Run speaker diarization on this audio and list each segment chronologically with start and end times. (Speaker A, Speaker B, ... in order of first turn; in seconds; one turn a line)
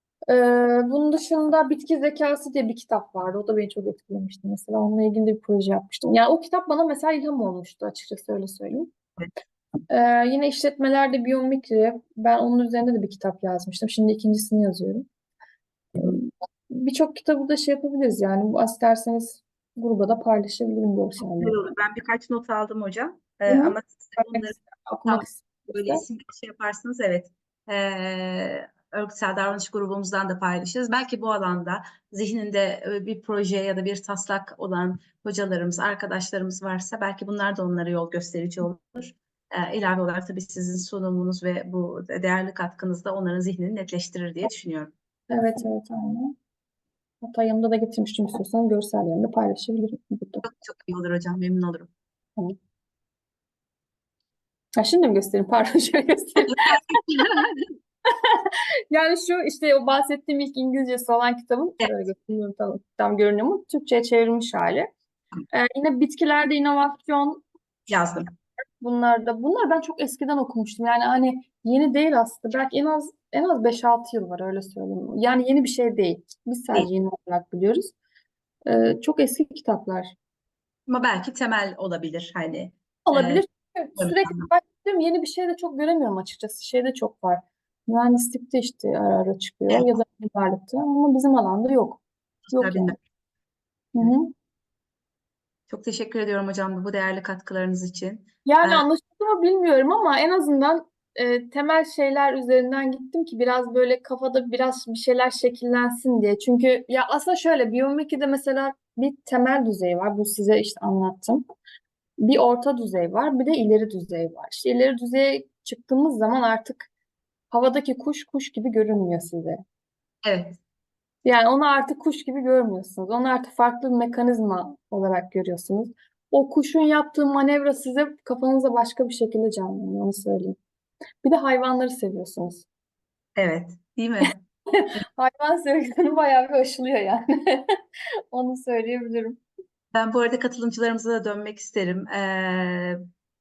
Speaker A: 0.3-8.9
Speaker A: 9.9-15.1
Speaker A: 15.9-21.5
Speaker B: 21.2-44.9
Speaker A: 23.5-26.0
Speaker A: 45.3-46.3
Speaker A: 47.2-50.4
Speaker B: 50.4-51.9
Speaker A: 54.8-57.0
Speaker B: 56.5-57.6
Speaker A: 58.1-64.9
Speaker A: 65.5-67.4
Speaker B: 67.9-68.3
Speaker A: 68.8-77.9
Speaker A: 78.7-80.1
Speaker B: 80.9-83.5
Speaker A: 83.1-93.0
Speaker B: 84.0-84.5
Speaker B: 92.5-93.0
Speaker A: 93.9-94.3
Speaker B: 95.7-98.8
Speaker A: 98.5-111.4
Speaker A: 112.2-116.9
Speaker A: 117.5-119.6
Speaker B: 120.2-120.6
Speaker A: 121.2-130.6
Speaker A: 131.2-132.7
Speaker B: 133.4-134.3
Speaker A: 134.7-137.8
Speaker A: 138.3-139.4
Speaker B: 139.9-143.0